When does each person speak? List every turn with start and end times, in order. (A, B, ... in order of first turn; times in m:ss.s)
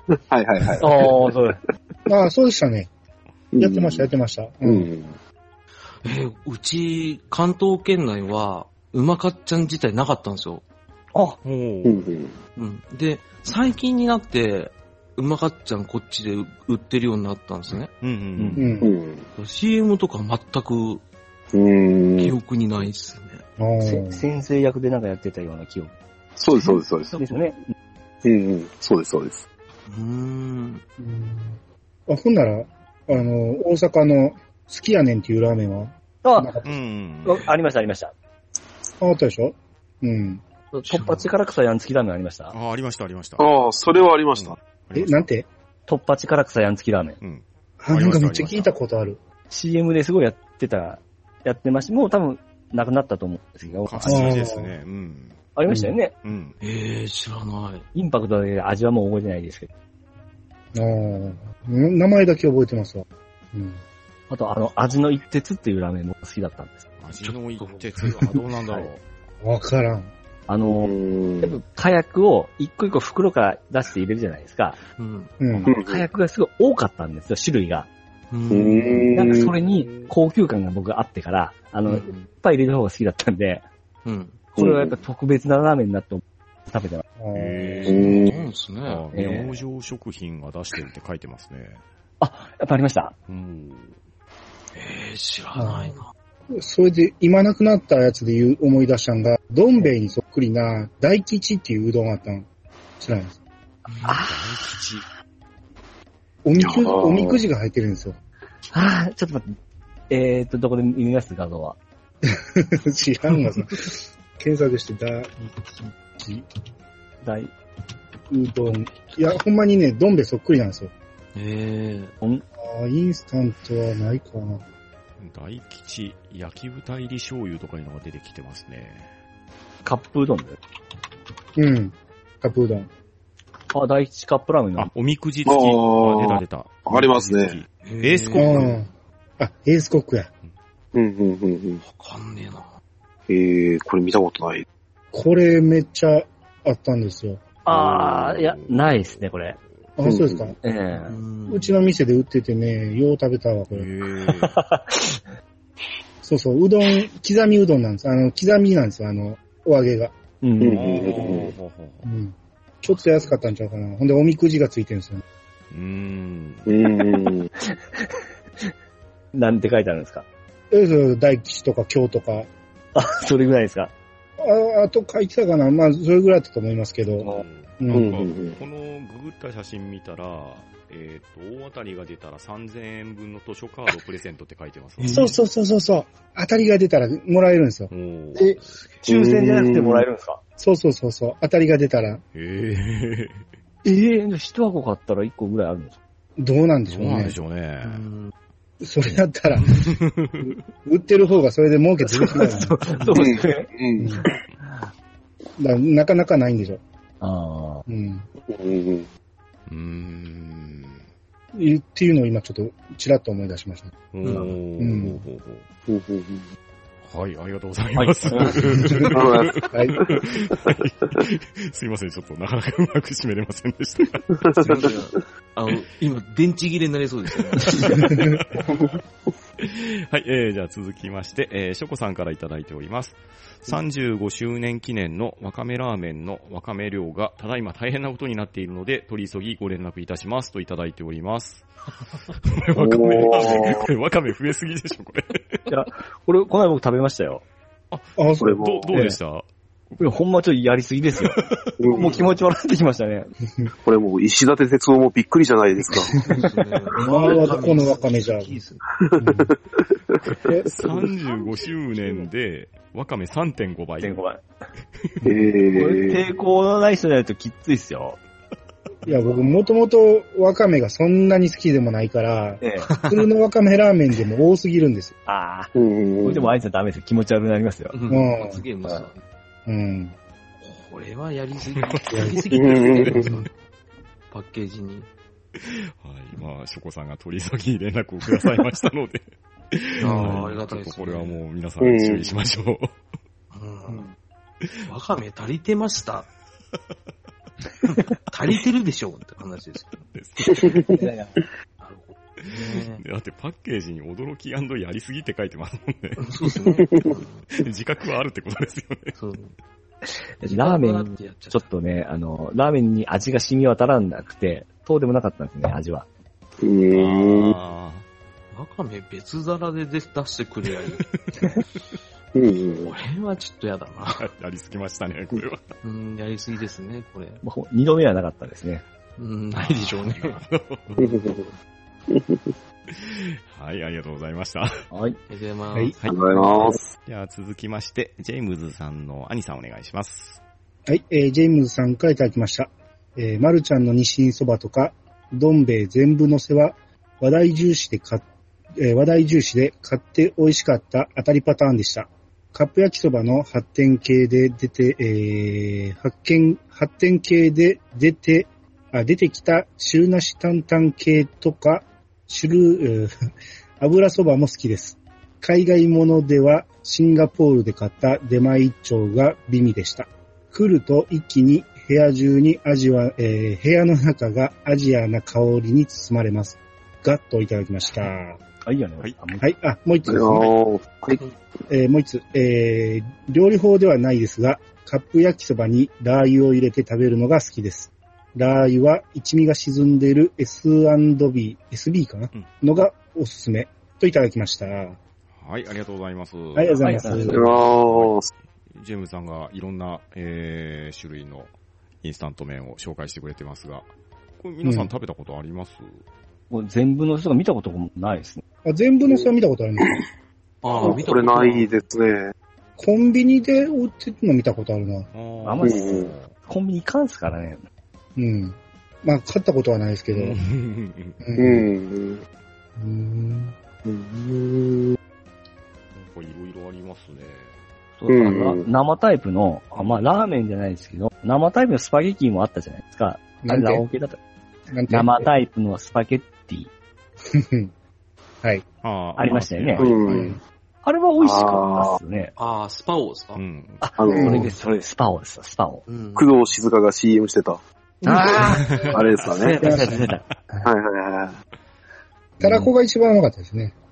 0:00.3-0:01.2 A
0:00.8-0:01.6 B
0:02.1-0:02.9 C
0:03.5-0:04.1 A
0:03.6-0:04.9 C
0:04.6-0:05.2 A
0:06.0-0:10.6 D
0:11.4-0:12.1 E
0:11.8-0:12.3 A
0:12.6-0:17.9 D
0:18.0-0:18.7 E
0:18.4-0:18.7 B
0:18.6-0:18.9 C
0:18.8-0:19.2 A
0:19.4-0:21.0 D
0:21.5-0:22.4 A
0:22.2-0:23.4 D
0:23.6-0:24.2 C
0:23.8-0:25.9 B
0:26.4-0:27.2 A
0:26.6-0:27.2 D
0:27.1-0:27.6 B
0:28.2-0:29.4 A
0:29.9-0:30.8 D
0:31.0-0:31.6 C
0:32.1-0:36.7 C
0:36.2-0:36.5 B
0:36.6-0:37.5 E
0:37.2-0:38.1 B
0:39.0-0:40.4 C
0:40.8-0:42.5 B
0:40.8-0:41.3 D
0:42.5-0:43.5 E
0:43.4-0:44.6 A
0:44.3-0:45.3 E
0:44.9-0:45.4 C
0:45.9-0:47.2 B
0:47.2-0:48.7 E
0:47.8-0:49.2 C
0:49.5-0:54.4 B
0:53.6-0:55.4 E
0:54.0-0:54.7 C
0:55.6-0:56.1 B
0:55.7-0:56.0 C
0:56.2-0:56.6 E
0:56.6-0:57.8 D
0:57.9-0:59.7 B
1:00.7-1:03.8 C
1:04.3-1:06.8 B
1:07.0-1:09.0 E
1:07.2-1:08.1 D
1:09.4-1:10.1 C
1:10.5-1:14.8 B
1:10.8-1:11.6 A
1:15.0-1:15.3 D
1:15.4-1:15.7 C
1:15.5-1:17.9 B
1:15.6-1:16.0 A
1:18.3-1:19.4 D
1:18.5-1:19.5 A
1:19.1-1:23.6 B
1:19.5-1:20.1 E
1:21.8-1:22.3 D
1:24.0-1:24.4 D
1:24.6-1:25.0 A
1:24.6-1:27.0 B
1:27.2-1:28.1 C
1:27.3-1:31.8 E
1:27.9-1:28.3 A
1:27.9-1:29.0 D
1:29.1-1:29.6 B
1:32.2-1:33.1 B
1:33.3-1:33.9 E
1:34.7-1:36.1 D
1:35.6-1:35.9 C
1:36.5-1:42.5 C
1:43.0-1:43.4 C
1:43.9-1:44.2 D
1:44.0-1:44.6 B
1:44.2-1:45.0 E
1:46.4-1:48.2 C
1:46.6-1:47.4 A
1:48.7-1:49.4 B
1:50.1-1:51.8 B
1:52.6-1:55.5 C
1:56.1-1:56.4 C
1:57.2-1:57.5 B
1:58.3-2:00.9 C
2:01.3-2:02.1 D
2:02.6-2:04.6 C
2:05.2-2:09.1 E
2:09.8-2:10.6 B
2:11.6-2:12.9 C
2:13.7-2:14.9 B
2:14.8-2:18.8 E
2:15.4-2:17.6 A
2:17.8-2:18.7 D
2:18.3-2:20.3 C
2:20.9-2:21.8 A
2:21.8-2:22.7 D
2:23.3-2:24.6 A
2:25.1-2:27.4 C
2:27.6-2:29.6 B
2:27.7-2:29.3 E
2:30.0-2:30.5 C
2:30.0-2:30.5 A
2:30.6-2:31.1 B
2:31.0-2:31.7 D
2:31.5-2:33.9 C
2:33.7-2:34.6 E
2:34.2-2:35.2 B
2:36.2-2:40.1 C
2:40.4-2:41.0 B
2:40.6-2:41.5 A
2:40.7-2:42.0 E
2:42.0-2:45.2 C
2:45.7-2:46.8 E
2:46.6-2:47.5 A
2:47.6-2:48.7 B
2:49.3-2:50.2 B
2:50.7-2:52.5 C
2:52.9-2:53.9 B
2:54.4-2:58.1 C
2:57.2-3:05.3 E
2:57.9-2:58.6 A
3:05.0-3:05.3 D
3:05.1-3:07.9 C
3:07.9-3:08.7 E
3:08.3-3:10.4 B
3:08.7-3:09.0 D
3:09.0-3:10.0 A
3:10.6-3:12.2 C
3:12.3-3:13.5 E
3:13.8-3:16.0 B
3:16.4-3:17.4 C
3:16.9-3:18.0 E
3:17.8-3:18.3 D
3:18.8-3:19.9 C
3:19.6-3:20.5 E
3:20.8-3:22.9 C
3:22.0-3:23.7 B
3:23.2-3:24.3 A
3:24.0-3:24.2 C
3:25.6-3:26.8 C
3:27.2-3:27.8 B
3:27.9-3:28.3 C
3:28.4-3:29.1 A
3:29.7-3:31.0 E
3:31.5-3:33.9 C
3:34.1-3:35.6 E
3:34.2-3:34.6 D
3:34.8-3:35.2 C
3:35.9-3:36.5 A
3:37.1-3:44.5 E
3:38.0-3:38.6 B
3:38.7-3:39.1 C
3:39.1-3:40.7 A
3:39.7-3:40.0 C
3:44.4-3:44.8 A
3:44.5-3:48.1 D
3:47.6-3:48.6 E
3:49.6-4:01.7 E
4:02.4-4:05.6 E
4:02.8-4:03.8 A
4:05.7-4:07.4 B
4:07.9-4:10.0 E
4:08.2-4:08.6 C
4:08.4-4:08.9 A
4:08.9-4:09.2 B
4:10.0-4:11.4 B
4:11.2-4:11.6 E
4:11.8-4:12.2 A
4:11.9-4:13.3 B
4:11.9-4:12.3 D
4:13.8-4:16.2 A
4:16.2-4:18.8 D
4:17.0-4:18.6 C
4:19.0-4:19.5 A
4:19.2-4:19.5 C
4:20.4-4:20.8 C
4:20.6-4:24.2 E
4:24.0-4:24.4 B
4:25.2-4:26.2 A
4:25.7-4:28.2 B
4:29.0-4:35.1 C
4:32.6-4:32.9 B
4:32.9-4:33.2 D
4:35.2-4:35.7 B
4:35.7-4:36.5 A
4:36.2-4:38.0 B
4:37.9-4:39.2 D
4:38.1-4:38.6 C
4:39.7-4:40.1 C
4:40.6-4:43.5 D
4:41.9-4:43.4 E
4:42.1-4:42.4 C
4:42.5-4:43.2 A
4:44.3-4:45.1 D
4:45.6-4:52.9 E
4:50.0-4:51.4 D
4:51.8-4:52.3 A
4:53.5-4:54.1 D
4:54.8-4:56.3 D
4:57.9-5:00.0 D
5:00.1-5:00.8 E
5:00.5-5:01.1 A
5:01.8-5:03.0 D
5:02.4-5:06.4 E
5:06.2-5:07.4 D
5:06.6-5:07.1 A
5:07.5-5:09.2 E
5:09.2-5:09.5 D
5:10.0-5:16.0 B
5:10.5-5:11.6 D
5:16.6-5:17.6 A
5:16.9-5:18.0 E
5:18.5-5:21.0 D
5:20.9-5:21.5 E
5:22.3-5:22.9 A
5:22.7-5:24.2 D
5:24.2-5:25.6 E
5:25.8-5:27.4 D
5:27.4-5:28.8 B
5:29.2-5:30.4 D
5:29.5-5:30.9 E
5:31.0-5:31.5 A
5:32.1-5:32.4 A
5:32.9-5:34.8 E
5:34.9-5:35.2 B
5:35.3-5:36.6 D
5:36.0-5:40.4 E
5:36.0-5:36.9 A
5:40.9-5:48.2 C
5:48.8-6:03.1 C
6:03.8-6:18.4 C
6:18.6-6:19.5 B
6:19.4-6:20.5 C
6:20.1-6:21.2 A
6:21.7-6:35.0 C
6:35.4-6:38.2 E
6:36.5-6:37.5 C
6:36.8-6:37.4 B
6:37.3-6:38.3 A
6:38.7-6:43.8 E
6:44.4-6:46.0 E
6:44.6-6:44.9 C
6:46.5-6:48.4 B
6:48.6-6:50.0 C
6:50.6-6:51.8 D
6:50.8-6:52.3 A
6:52.8-6:55.1 C
6:55.1-6:56.3 E
6:55.4-6:57.6 B
6:55.6-6:56.1 A
6:58.2-7:00.4 C
7:00.1-7:01.2 E
7:01.2-7:01.7 C
7:01.4-7:02.2 A
7:02.8-7:03.5 C
7:03.8-7:04.9 A
7:06.0-7:07.5 E
7:08.0-7:14.2 B
7:08.1-7:08.6 A
7:13.4-7:13.8 C
7:14.7-7:15.3 C
7:14.9-7:16.7 B
7:17.3-7:17.7 C
7:18.8-7:20.1 E
7:19.2-7:22.3 B
7:19.8-7:20.3 A
7:20.0-7:20.4 C
7:21.2-7:22.0 A
7:22.4-7:23.4 D
7:23.3-7:23.8 E
7:23.8-7:25.8 B
7:24.0-7:24.5 A
7:24.1-7:24.5 C
7:25.9-7:26.3 D
7:26.1-7:27.6 A
7:28.0-7:28.9 D
7:28.0-7:30.7 B
7:28.4-7:30.2 E
7:28.9-7:29.7 A
7:29.6-7:30.0 C
7:30.6-7:31.4 A
7:32.4-7:33.7 C
7:32.4-7:32.7 B